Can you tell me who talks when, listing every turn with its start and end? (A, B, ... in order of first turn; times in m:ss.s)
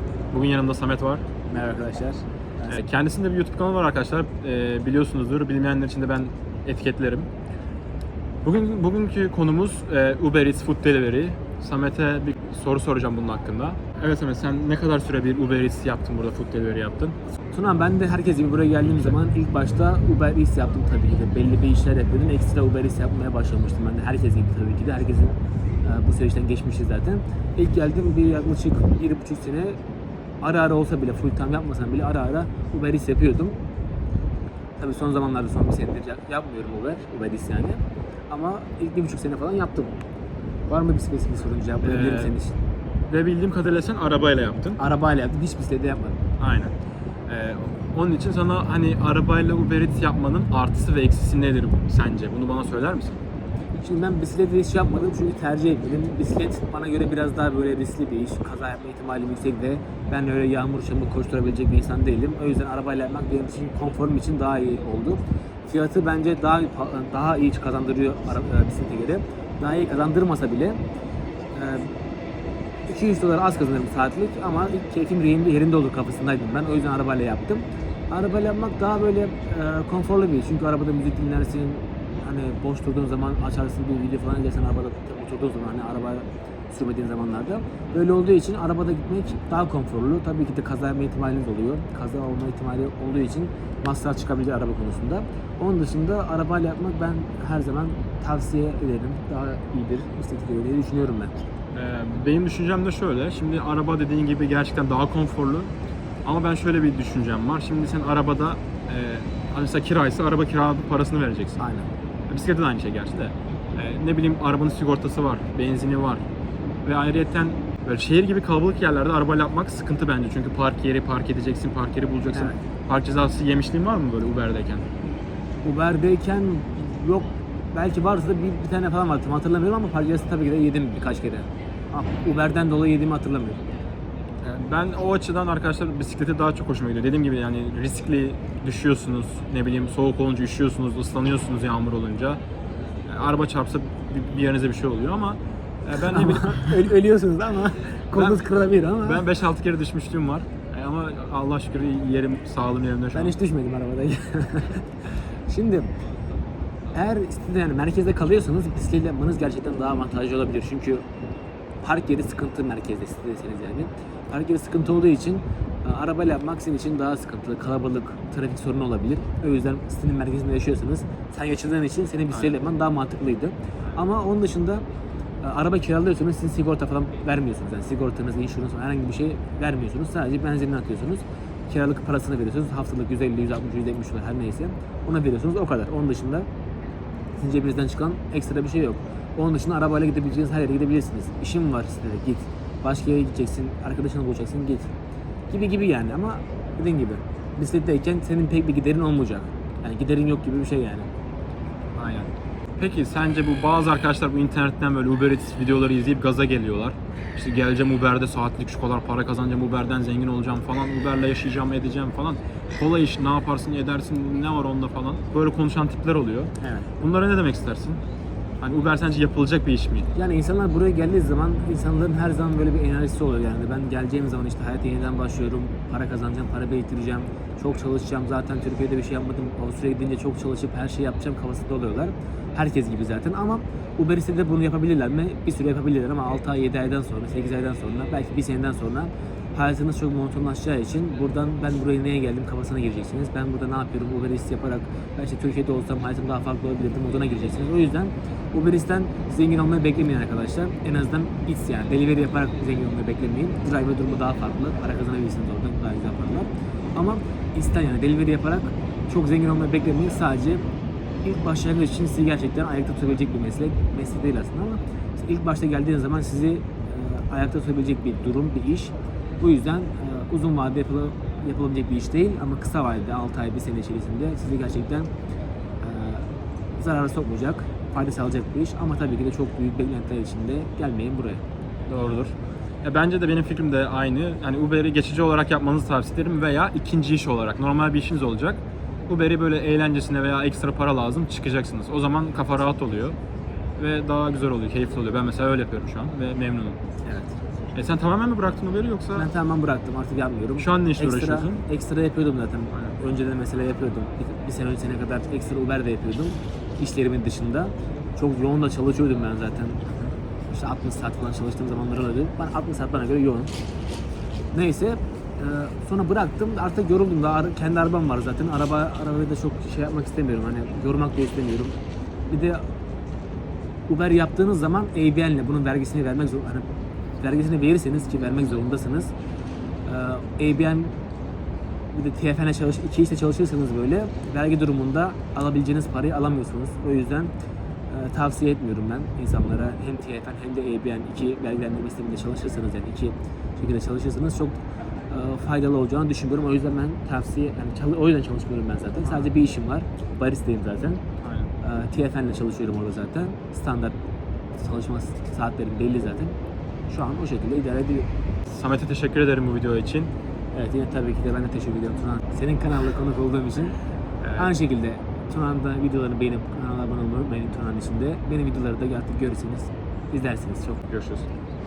0:00.3-0:01.4 A
0:01.5-0:02.7 B
0:02.7-0:07.3 A
0:08.4-0:17.2 A
0:17.5-0:29.8 B
0:30.4-0:33.6 B
0:34.8-0:40.0 B
0:40.7-0:42.6 B
0:41.8-0:42.4 A
0:43.1-0:44.8 A
0:44.8-0:46.2 B
0:46.4-0:46.7 A
0:47.3-0:53.2 A
0:53.8-1:10.8 B
1:11.5-1:11.9 B
1:12.9-1:41.4 B
1:41.7-1:45.7 A
1:46.2-1:51.6 A
1:51.6-1:51.9 B
1:52.3-1:56.3 A
1:56.8-2:04.9 A
2:02.3-2:02.6 B
2:05.6-2:13.6 B
2:14.4-2:22.4 A
2:23.1-2:26.8 A
2:26.0-2:29.2 B
2:28.2-2:28.4 A
2:29.0-2:33.4 A
2:33.1-2:34.9 B
2:35.5-2:35.9 B
2:36.9-2:41.0 B
2:41.8-2:54.8 B
2:55.4-3:06.5 B
3:07.4-3:14.9 B
3:15.5-3:21.1 B
3:22.0-3:38.0 A
3:36.6-3:36.9 B
3:38.6-3:40.1 A
3:40.2-4:20.6 B
4:21.2-4:35.1 B
4:35.8-4:36.2 B
4:36.8-4:41.4 B
4:41.9-4:53.2 A
4:53.8-4:56.8 A
4:57.8-4:59.3 A
4:59.2-5:09.8 B
5:00.6-5:01.6 A
5:09.9-5:10.1 A
5:10.5-5:13.5 B
5:14.5-5:21.8 B
5:22.3-5:22.6 B
5:23.9-5:26.6 B
5:27.2-5:29.1 B
5:29.9-5:31.0 B
5:31.9-5:37.3 B
5:37.9-5:44.6 B
5:45.1-5:51.0 B
5:49.0-5:49.3 A
5:51.2-5:51.5 A
5:51.6-5:54.0 B
5:54.6-5:56.4 B
5:56.9-5:58.1 B
5:58.5-6:00.1 A
6:00.5-6:03.8 B
6:04.2-6:04.5 A
6:04.4-6:10.9 B
6:10.9-6:11.3 A